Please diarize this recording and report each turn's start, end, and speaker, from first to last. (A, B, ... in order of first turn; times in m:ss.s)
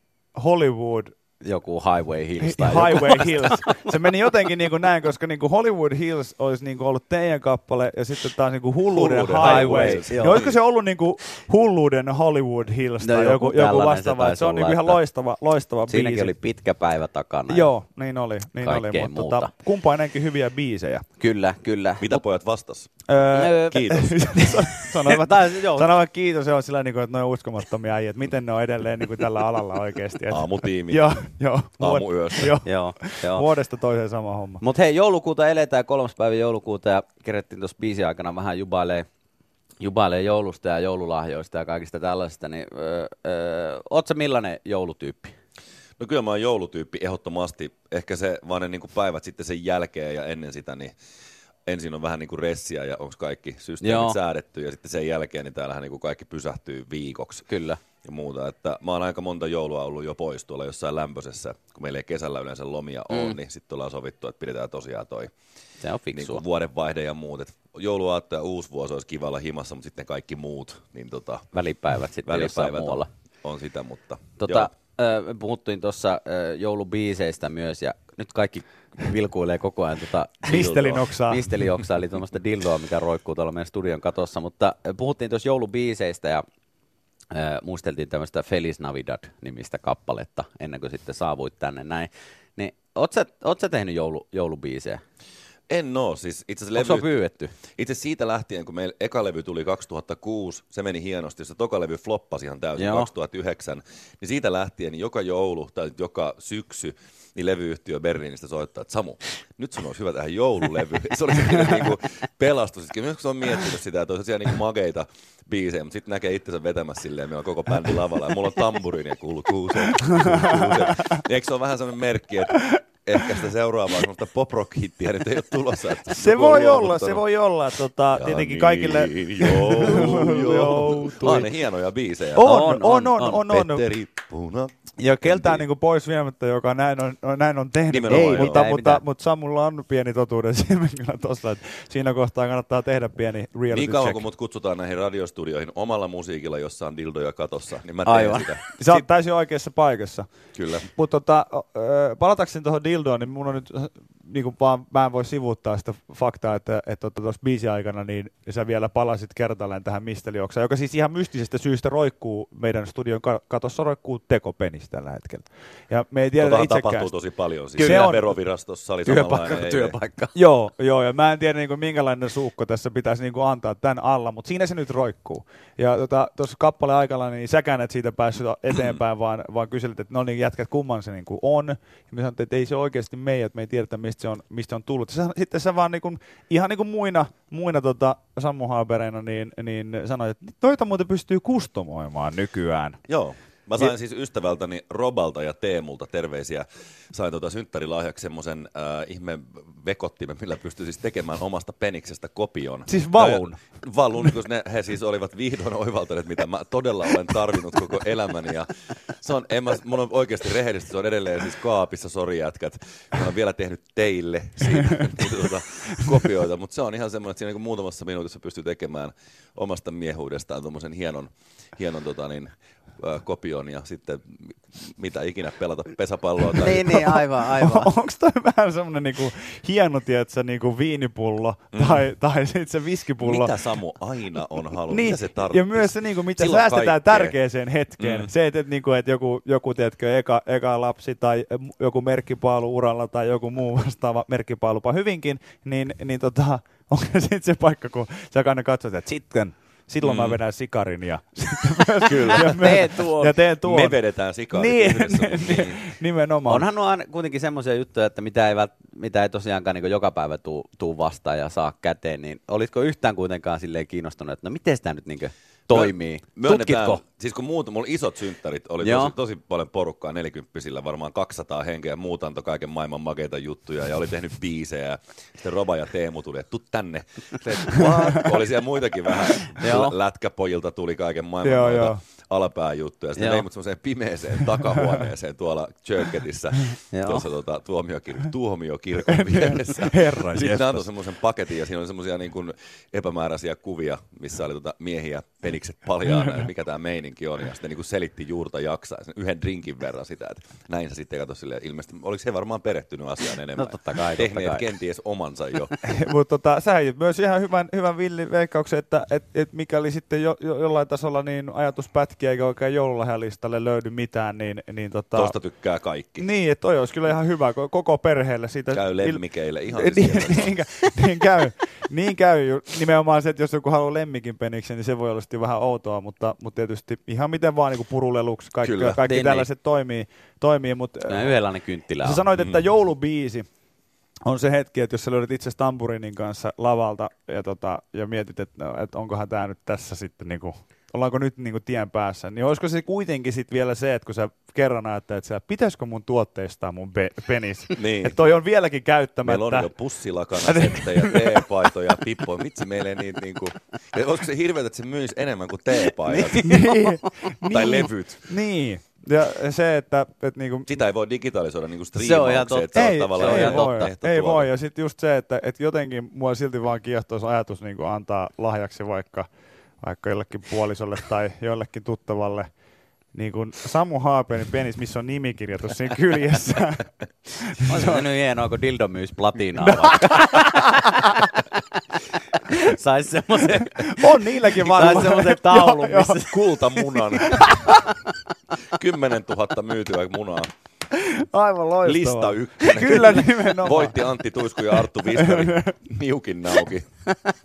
0:00.4-0:01.2 A
0:01.4-0:03.8 B
0:02.4-0:16.3 A
0:08.9-0:10.6 C
0:09.4-0:10.4 B
0:13.0-0:15.0 B
0:15.9-0:17.7 B
0:17.5-0:21.0 A
0:18.6-0:19.5 B
0:21.2-0:22.2 B
0:22.0-0:22.9 C
0:23.1-0:34.6 A
0:23.3-0:24.0 B
0:23.7-0:24.2 C
0:25.0-0:25.9 B
0:30.3-0:31.1 C
0:31.8-0:32.6 C
0:32.6-0:33.4 B
0:34.6-0:39.1 B
0:39.8-0:45.3 B
0:46.0-0:50.9 C
0:51.7-0:57.5 C
0:53.8-0:54.2 B
0:57.5-0:57.8 B
0:58.0-1:05.3 C
1:03.1-1:03.4 B
1:05.8-1:06.4 B
1:06.1-1:11.5 C
1:11.5-1:13.1 B
1:12.2-1:14.7 C
1:14.4-1:26.4 B
1:20.5-1:21.5 A
1:20.5-1:20.8 C
1:27.3-1:35.0 B
1:35.7-1:37.1 C
1:36.8-1:37.5 B
1:37.8-2:07.2 C
1:42.8-1:43.1 B
2:00.2-2:01.0 A
2:06.1-2:11.5 A
2:08.1-2:12.8 C
2:12.4-2:13.9 A
2:12.5-2:13.4 B
2:13.4-2:15.6 C
2:15.0-2:24.2 A
2:17.9-2:18.7 C
2:18.1-2:19.0 B
2:23.7-2:29.0 C
2:28.1-2:28.5 B
2:28.8-2:30.3 A
2:30.6-2:30.9 C
2:30.9-2:47.1 A
2:46.4-2:50.0 C
2:47.8-2:48.2 A
2:47.8-2:48.2 B
2:49.0-2:50.4 B
2:50.4-3:13.0 A
3:13.1-3:47.2 C
3:22.9-3:23.6 A
3:46.6-3:47.9 B
3:46.8-3:53.6 A
3:51.7-3:52.1 C
3:53.2-3:57.4 C
3:54.9-4:16.7 A
3:58.0-3:58.3 C
4:10.0-4:10.4 C
4:12.0-4:12.9 C
4:12.1-4:13.4 B
4:13.6-4:15.8 C
4:16.5-4:27.0 B
4:25.7-5:05.8 C
4:28.8-4:29.2 B
4:37.8-4:38.3 A
4:39.6-4:39.9 B
4:41.4-4:42.0 A
4:43.2-4:43.4 B
4:44.7-4:45.0 A
4:46.9-4:47.2 B
4:49.0-4:50.9 A
4:56.0-4:56.4 A
5:03.6-5:04.7 B
5:05.8-5:15.4 A
5:15.2-5:16.3 C
5:16.2-5:31.4 A
5:18.7-5:20.6 C
5:28.6-5:29.0 C
5:29.0-5:29.5 B
5:31.1-5:32.2 B
5:32.0-5:33.5 A
5:32.4-5:32.6 C
5:34.3-5:49.7 A
5:47.8-5:48.2 C
5:49.2-5:56.6 C
5:50.4-5:51.5 A
5:56.0-5:57.1 B
5:56.4-6:00.8 A
5:57.5-5:58.3 C
6:00.7-6:04.5 C
6:02.0-6:03.9 B
6:02.7-6:09.3 A
6:09.8-6:12.5 A
6:13.1-6:18.0 A
6:17.6-6:21.5 B
6:19.6-6:20.7 A
6:22.5-6:27.9 B
6:23.8-6:26.2 A
6:26.2-6:27.7 C
6:27.2-6:27.6 A
6:28.7-6:30.5 C
6:30.9-6:34.0 A
6:31.8-6:36.9 C
6:35.1-6:35.8 A